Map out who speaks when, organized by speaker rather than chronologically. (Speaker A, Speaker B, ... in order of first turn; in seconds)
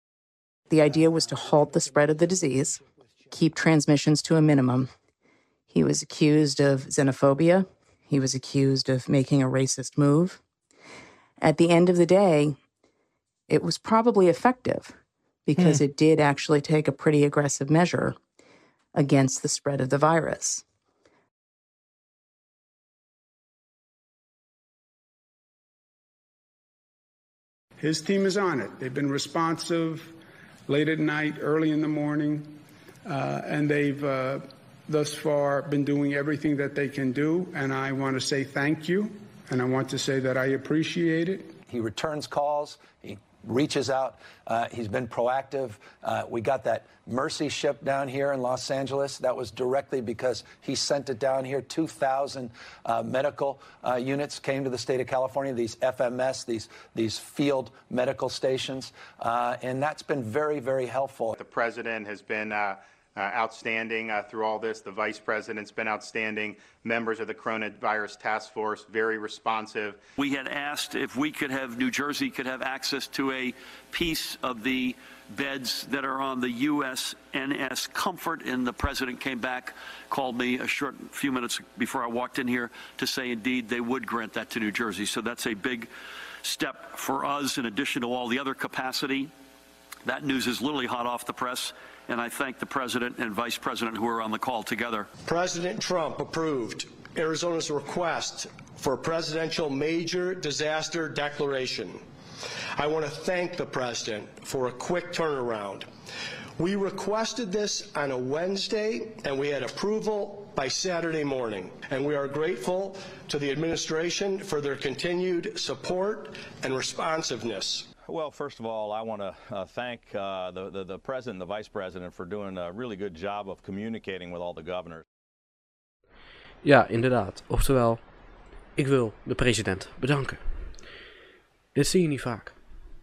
Speaker A: 0.7-4.9, 5.7-10.4, 11.4-12.6, 13.5-14.9, 15.5-18.2, 18.9-20.6
Speaker B: 27.8-30.2, 30.7-41.6
Speaker C: 41.7-61.3
Speaker D: 61.3-70.0
Speaker E: 70.2-85.9, 86.4-89.3, 90.0-95.1
Speaker F: 95.2-102.0, 102.8-105.9, 106.6-117.9
Speaker G: 118.1-125.0
Speaker H: 126.6-128.0, 128.8-130.4, 131.8-132.6